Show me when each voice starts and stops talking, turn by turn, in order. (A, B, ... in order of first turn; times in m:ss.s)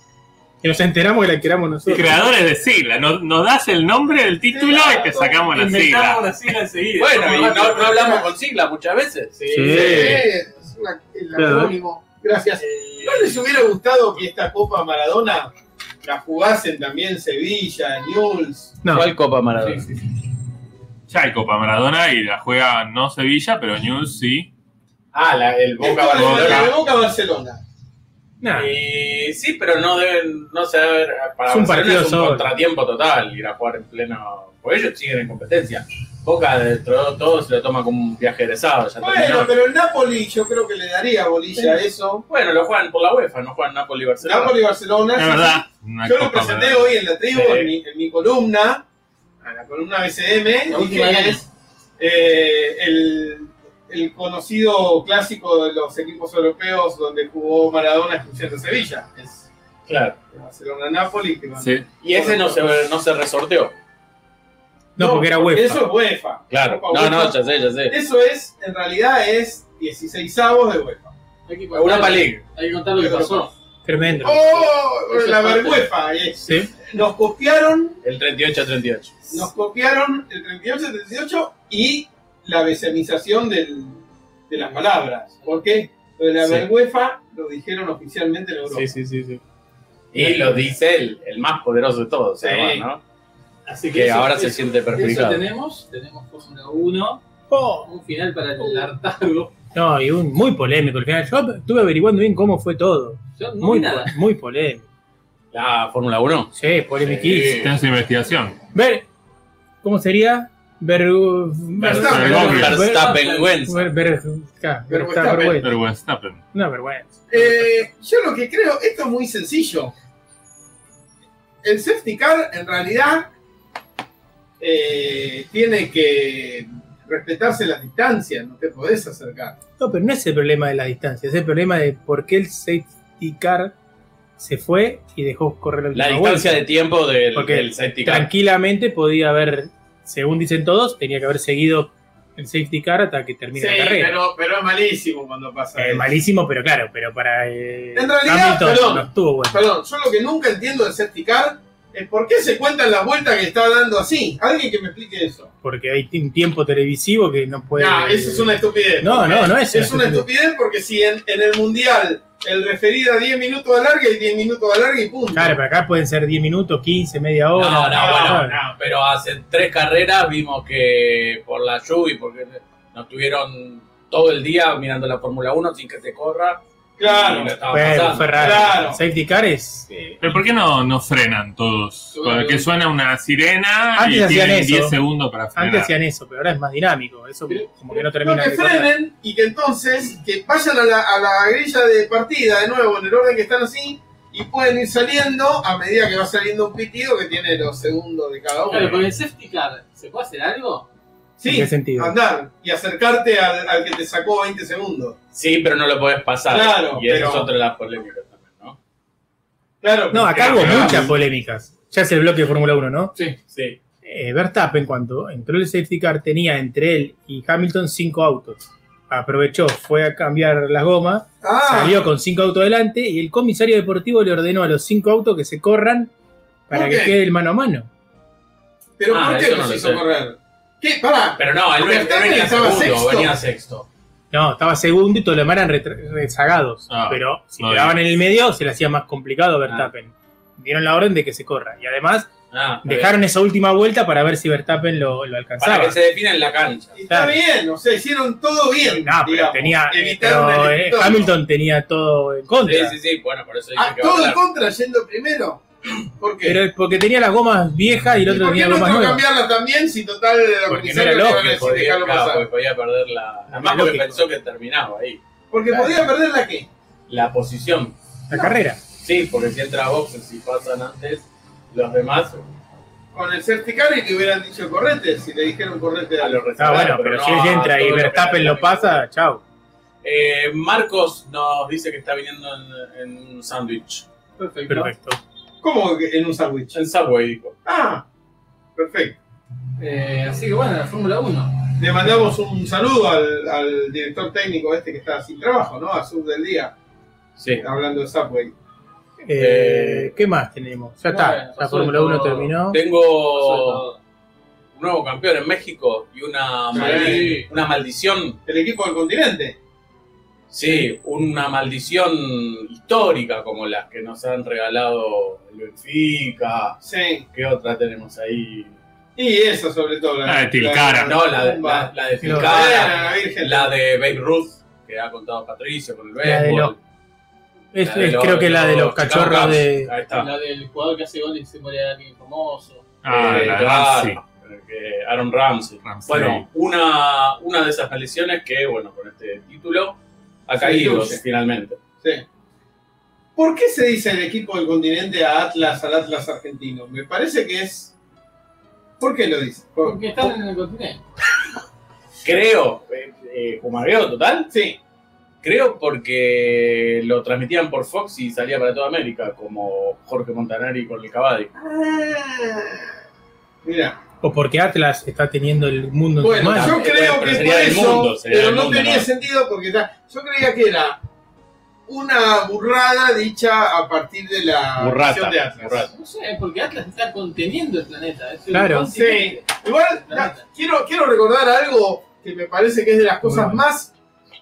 0:00.6-0:02.2 A
0:01.9-0:06.3 B
0:04.5-0:05.5 C
0:05.5-0:08.1 D
0:07.0-0:10.3 E
0:07.8-0:08.2 C
0:09.5-0:10.2 A
0:09.7-0:15.5 C
0:11.4-0:11.8 A
0:12.6-0:13.4 D
0:16.0-0:18.8 C
0:18.8-0:19.1 A
0:18.9-0:19.9 E
0:19.6-0:19.9 D
0:21.1-0:24.5 B
0:25.1-0:26.7 E
0:25.8-0:27.6 C
0:26.4-0:26.7 B
0:28.4-0:28.7 A
0:28.5-0:39.6 E
0:31.5-0:32.5 A
0:39.0-0:42.2 C
0:42.3-0:44.6 E
0:44.2-0:48.8 C
0:45.2-0:47.0 B
0:47.3-0:47.7 E
0:49.4-0:51.5 C
0:50.7-0:51.4 D
0:52.0-0:59.5 C
0:59.9-1:00.2 E
1:00.3-1:02.7 C
1:01.6-1:01.9 B
1:02.0-1:03.7 E
1:05.0-1:05.8 A
1:05.0-1:07.4 C
1:06.5-1:08.0 E
1:07.9-1:11.1 C
1:11.5-1:13.5 D
1:11.7-1:12.4 E
1:13.0-1:13.5 C
1:13.8-1:14.6 A
1:14.2-1:18.0 C
1:14.5-1:15.9 D
1:16.4-1:16.7 A
1:18.0-1:19.3 E
1:19.3-1:28.9 C
1:26.4-1:26.7 E
1:28.7-1:29.4 E
1:30.1-1:33.0 E
1:30.2-1:30.6 A
1:32.4-1:32.9 C
1:33.7-1:37.2 D
1:33.9-1:35.4 E
1:37.5-1:37.9 A
1:37.8-1:39.5 D
1:39.7-1:44.8 A
1:43.4-1:44.1 D
1:45.5-1:47.7 E
1:46.5-1:47.6 A
1:47.5-1:48.6 B
1:48.7-1:49.1 A
1:49.8-1:55.7 A
1:51.8-1:53.8 E
1:51.8-1:52.6 C
1:52.0-1:52.9 B
1:52.7-1:53.6 D
1:54.9-1:55.6 C
1:55.6-1:56.4 B
1:56.5-1:57.9 A
1:57.3-1:59.9 C
2:01.6-2:03.3 C
2:04.6-2:09.6 C
2:09.8-2:13.8 A
2:14.4-2:16.6 A
2:15.9-2:18.3 E
2:17.3-2:24.2 A
2:23.6-2:26.0 C
2:25.8-2:29.6 A
2:28.0-2:35.5 C
2:35.6-2:40.3 A
2:37.8-2:45.6 C
2:45.3-2:48.6 A
2:47.6-2:58.8 E
2:47.9-2:48.8 C
2:57.0-2:57.6 C
2:57.7-3:00.2 A
2:58.3-2:59.0 C
3:00.2-3:05.9 B
3:02.1-3:02.7 D
3:04.0-3:05.0 A
3:05.6-3:08.9 A
3:08.2-3:19.0 C
3:18.7-3:20.9 D
3:21.4-3:25.2 C
3:21.5-3:22.2 A
3:25.3-3:28.8 E
3:26.5-3:27.5 C
3:29.8-3:31.1 C
3:30.1-3:33.1 A
3:30.5-3:30.9 B
3:33.5-3:33.8 E
3:34.0-3:46.1 A
3:41.4-3:42.0 C
3:46.7-3:47.9 A
3:46.7-3:47.2 C
3:49.0-3:53.3 C
3:49.1-3:50.0 E
3:51.4-3:53.9 E
3:54.3-4:02.3 A
3:56.9-3:58.0 B
4:02.5-4:03.2 E
4:02.8-4:06.0 A
4:05.6-4:06.9 E
4:07.0-4:11.3 C
4:07.1-4:07.4 A
4:08.8-4:13.0 A
4:12.6-4:14.4 E
4:13.8-4:16.6 C
4:16.4-4:19.2 A
4:18.3-4:22.5 C
4:20.7-4:21.7 A
4:21.2-4:25.2 E
4:23.5-4:24.2 A
4:25.5-4:26.7 C
4:25.7-4:26.1 A
4:27.1-4:28.0 E
4:28.3-4:28.8 A
4:29.0-4:32.4 E
4:33.1-4:37.0 C
4:36.2-4:39.0 E
4:36.6-4:39.4 A
4:40.0-4:44.1 E
4:44.4-4:44.9 D
4:44.7-4:45.2 A
4:45.6-4:46.8 C
4:46.7-4:47.6 E
4:47.6-4:48.1 C
4:48.8-4:49.2 C
4:49.8-4:51.6 D
4:51.8-4:56.7 C
4:57.4-4:57.6 E
4:57.6-4:58.5 C
4:59.2-5:02.8 A
4:59.4-5:00.2 E
5:01.1-5:02.5 D
5:02.7-5:03.8 E
5:03.3-5:04.0 D
5:04.7-5:08.4 E
5:06.7-5:07.3 C
5:06.7-5:07.5 D
5:08.5-5:09.6 C
5:10.5-5:16.8 E
5:16.8-5:17.2 C
5:17.3-5:18.8 E
5:19.2-5:23.7 C
5:20.2-5:21.1 B
5:21.1-5:26.8 E
5:22.2-5:22.5 A
5:22.7-5:23.2 D
5:26.2-5:26.7 A
5:27.7-5:29.9 A
5:27.8-5:30.3 E
5:30.1-5:32.8 D
5:33.0-5:34.2 B
5:33.1-5:41.8 E
5:35.8-5:36.5 B
5:40.6-5:41.2 C
5:43.4-5:47.9 C
5:49.0-5:50.3 C
5:49.8-5:51.0 D
5:52.2-5:54.5 E
5:54.5-5:54.8 C
5:55.4-6:01.5 E
6:01.6-6:02.9 C
6:03.6-6:04.0 C
6:04.2-6:06.8 A
6:06.2-6:11.0 C
6:06.5-6:09.1 E
6:11.9-6:15.9 C
6:14.8-6:15.9 E
6:15.9-6:20.4 D
6:18.5-6:18.9 A
6:18.9-6:23.9 C
6:23.2-6:23.6 A